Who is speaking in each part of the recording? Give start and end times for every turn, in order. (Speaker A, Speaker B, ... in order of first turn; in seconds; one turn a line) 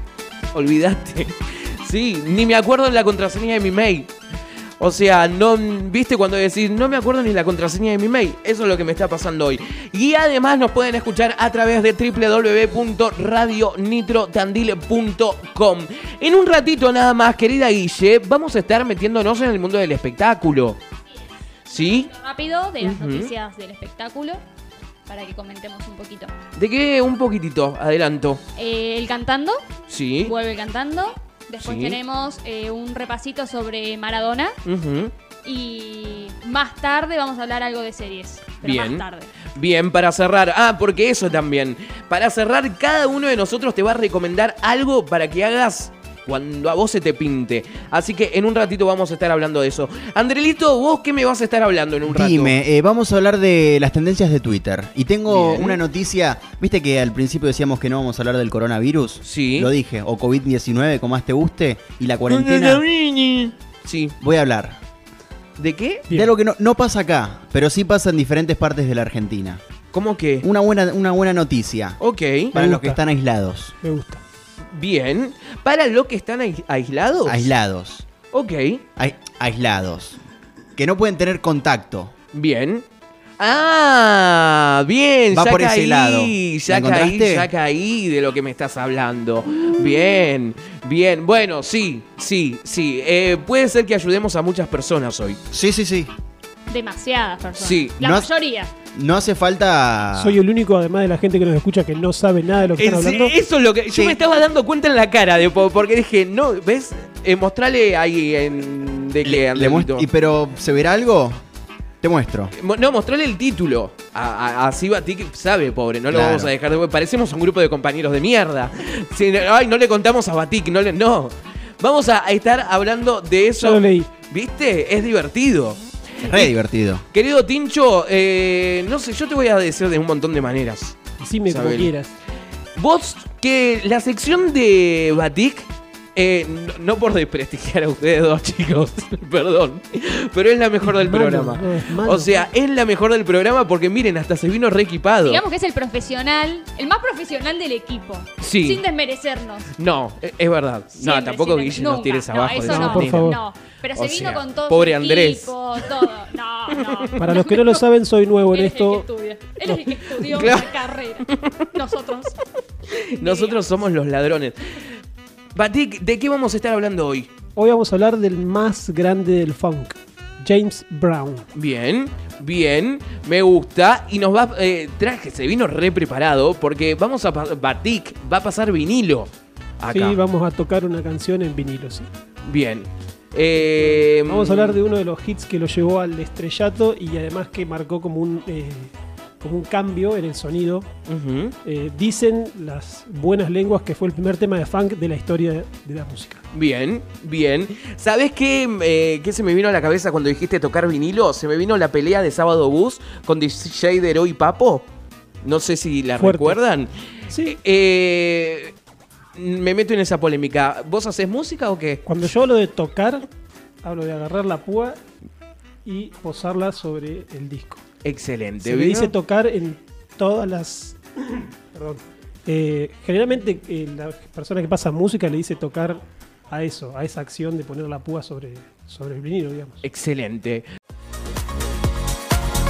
Speaker A: 0.5-4.1
Speaker A: 4.8-20.8
Speaker A: 21.6-22.1
Speaker B: 21.9-24.4
Speaker A: 22.8-23.3
Speaker B: 25.1-26.3
Speaker A: 26.6-28.4
Speaker B: 28.6-29.6
Speaker A: 29.9-30.3
Speaker B: 30.2-34.5
Speaker A: 31.6-32.0
Speaker A: 34.6-35.1
Speaker B: 35.4-39.3
Speaker A: 38.6-39.0
Speaker A: 39.5-52.5
Speaker C: 52.1-62.8
Speaker A: 55.3-55.8
Speaker A: 59.2-59.7
Speaker A: 62.3-64.1
Speaker C: 64.2-64.8
Speaker A: 65.6-66.1
Speaker C: 66.1-69.6
Speaker A: 69.9-70.5
Speaker C: 70.4-72.0
Speaker A: 72.0-72.5
Speaker D: 72.5-73.0
Speaker C: 72.5-73.7
Speaker D: 73.8-74.2
Speaker A: 74.7-77.5
Speaker C: 77.2-78.0
Speaker A: 78.3-78.8
Speaker C: 79.0-80.2
Speaker C: 80.8-82.1
Speaker A: 82.3-82.8
Speaker A: 83.4-95.4
Speaker C: 85.3-87.5
Speaker C: 95.5-96.1
Speaker B: 96.7-98.7
Speaker A: 97.5-97.9
Speaker C: 98.0-98.3
Speaker C: 98.9-100.4
Speaker D: 100.1-103.3
Speaker A: 102.8-110.1
Speaker C: 103.9-104.2
Speaker C: 109.2-111.4
Speaker C: 112.0-112.5
Speaker A: 112.5-125.8
Speaker C: 116.1-116.5
Speaker D: 123.6-124.1
Speaker C: 126.2-127.0
Speaker A: 127.1-131.9
Speaker D: 131.2-132.1
Speaker A: 132.7-145.4
Speaker D: 140.8-142.5
Speaker B: 145.2-149.7
Speaker A: 148.4-148.8
Speaker A: 149.8-153.3
Speaker B: 150.9-157.6
Speaker D: 152.6-153.4
Speaker A: 153.9-155.5
Speaker A: 156.9-157.4
Speaker D: 157.2-159.1
Speaker B: 158.5-162.3
Speaker D: 159.6-160.4
Speaker A: 160.2-161.7
Speaker A: 162.9-164.8
Speaker B: 163.1-163.6
Speaker A: 165.5-167.3
Speaker D: 167.6-171.5
Speaker A: 171.5-180.2
Speaker D: 179.9-182.1
Speaker A: 182.4-184.8
Speaker D: 183.7-190.9
Speaker A: 191.1-191.5
Speaker D: 191.6-196.4
Speaker A: 196.5-204.8
Speaker A: 205.4-206.9
Speaker D: 206.2-206.6
Speaker D: 207.3-207.6
Speaker A: 207.4-208.7
Speaker A: 209.3-212.0
Speaker D: 212.1-213.3
Speaker D: 213.8-215.0
Speaker D: 215.8-217.8
Speaker A: 218.0-219.1
Speaker D: 218.6-229.8
Speaker A: 229.8-230.7